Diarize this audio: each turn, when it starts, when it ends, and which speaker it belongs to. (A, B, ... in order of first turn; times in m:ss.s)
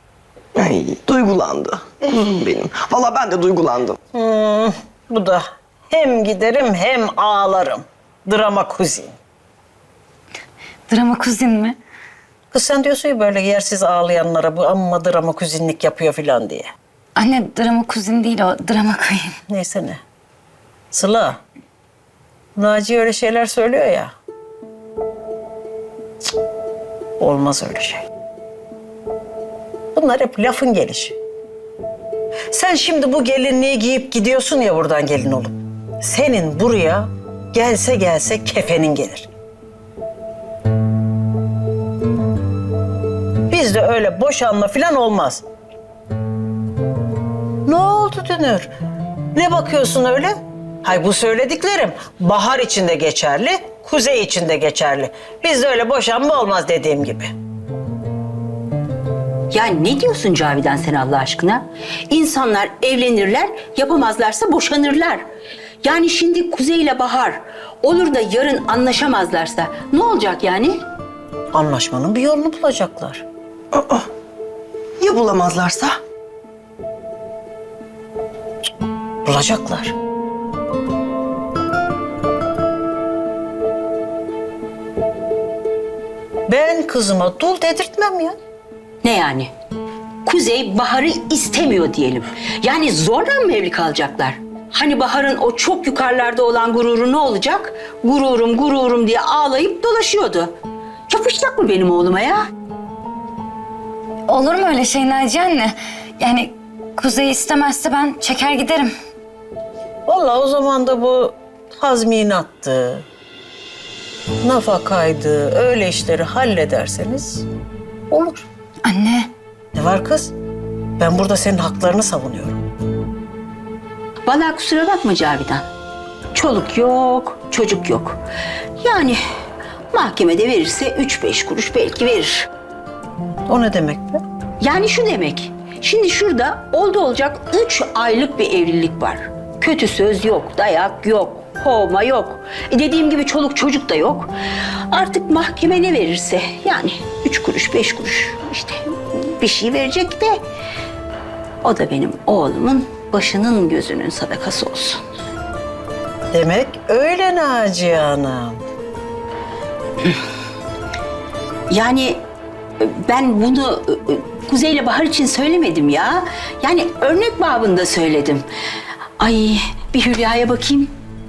0:00.6-0:04.0 A
0:04.1-0:09.2 B
0:10.9-0:11.8 C
0:12.5-0:16.7 B
0:17.2-0:19.4 C
0:19.5-0:20.0 B
0:20.9-0:21.4 B
0:22.6-0:24.1 B
0:27.2-0:28.1 B
0:29.9-0:31.2 B
0:32.5-0:39.3 B
0:43.5-0:45.4 B
0:47.6-0:48.7 B
0:49.3-0:57.3 B
0:59.5-1:05.2 D
1:05.8-1:10.8 D
1:11.5-1:13.2 B
1:13.7-1:14.1 A
1:15.0-1:16.0 A
1:19.2-1:20.0 B
1:26.5-1:28.4 B
1:29.0-1:29.5 D
1:30.2-1:40.5 D
1:41.1-1:42.5 D
1:44.3-1:48.9 C
1:50.1-1:53.1 B
1:54.4-1:57.5 B
1:58.1-1:58.5 B
1:58.8-1:59.3 C
1:59.8-2:00.3 B
2:01.0-2:02.6 B
2:04.3-2:05.7 D
2:06.3-2:08.2 D
2:08.8-2:09.2 D
2:09.9-2:12.5 D
2:13.5-2:14.2 B
2:14.6-2:24.3 D
2:24.9-2:30.4 D
2:31.6-2:35.0 D
2:36.3-2:38.6 B
2:41.7-2:42.2 D
2:42.8-2:48.5 D
2:49.2-2:51.0 D